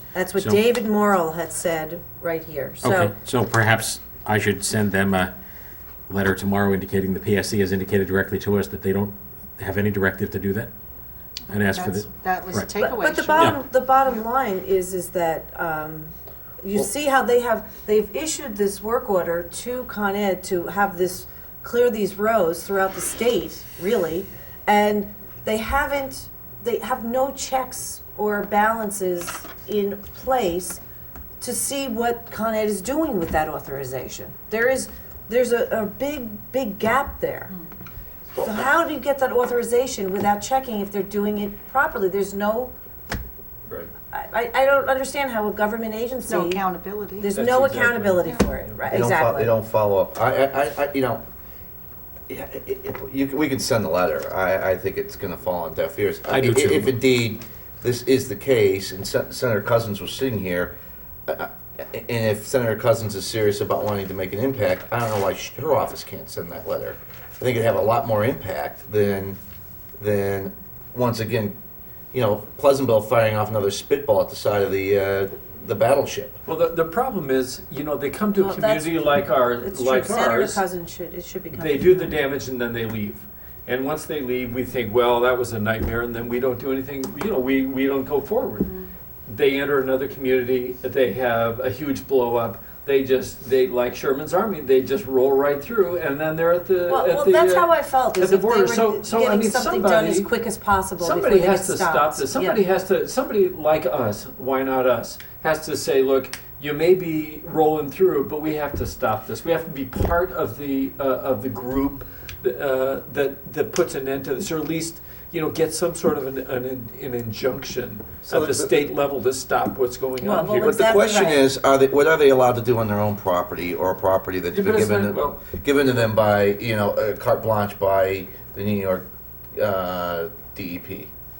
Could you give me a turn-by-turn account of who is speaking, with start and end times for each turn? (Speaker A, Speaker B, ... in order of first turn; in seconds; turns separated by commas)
Speaker A: 0.1-3.1, Speaker B: 0.3-0.6, Speaker B: 2.8-5.3, Speaker B: 6.1-10.7, Speaker B: 11.5-13.6, Speaker C: 11.5-13.6, Speaker A: 12.8-16.1, Speaker A: 16.6-30.8, Speaker A: 31.4-37.5, Speaker A: 38.4-42.7, Speaker A: 44.1-46.6, Speaker C: 46.2-47.3, Speaker A: 47.2-49.5, Speaker D: 47.3-48.8, Speaker E: 48.9-51.2, Speaker E: 52.3-60.7, Speaker B: 56.3-56.9, Speaker E: 61.3-69.4, Speaker E: 70.0-71.5, Speaker E: 72.1-76.4, Speaker D: 76.5-80.6, Speaker A: 78.4-79.1, Speaker A: 79.6-82.2, Speaker D: 81.5-100.3, Speaker A: 96.9-102.6, Speaker D: 101.0-120.8, Speaker E: 118.3-118.7, Speaker A: 120.2-121.5, Speaker E: 120.6-131.1, Speaker D: 124.5-125.4